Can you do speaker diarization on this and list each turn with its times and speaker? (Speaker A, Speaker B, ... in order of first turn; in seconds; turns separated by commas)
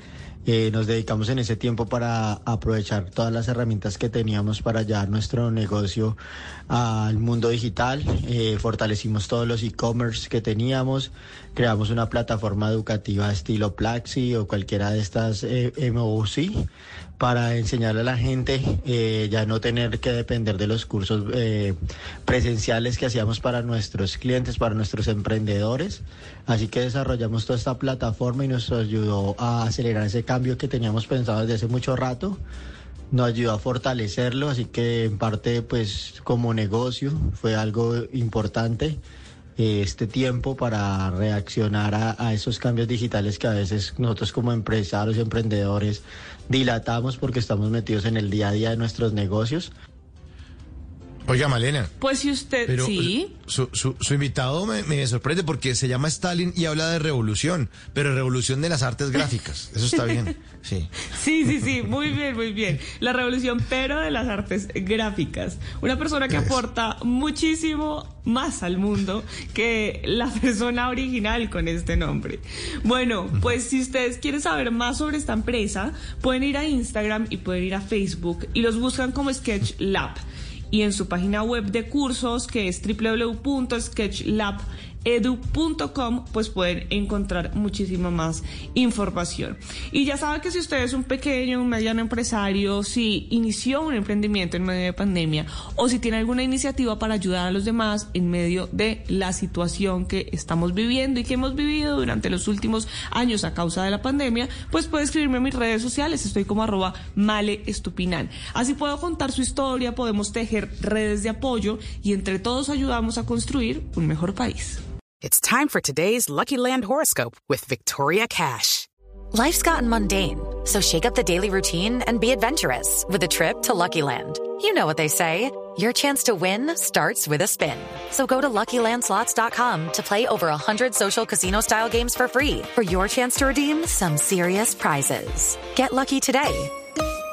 Speaker A: 0.5-6.2, Speaker A: 6.7-16.6, Speaker A: 17.2-32.4, Speaker A: 33.1-39.0, Speaker A: 39.6-49.7, Speaker B: 51.3-51.9, Speaker C: 52.0-53.3, Speaker B: 52.7-60.9, Speaker C: 61.1-80.2, Speaker C: 80.7-114.8, Speaker D: 115.2-118.9, Speaker E: 119.3-136.7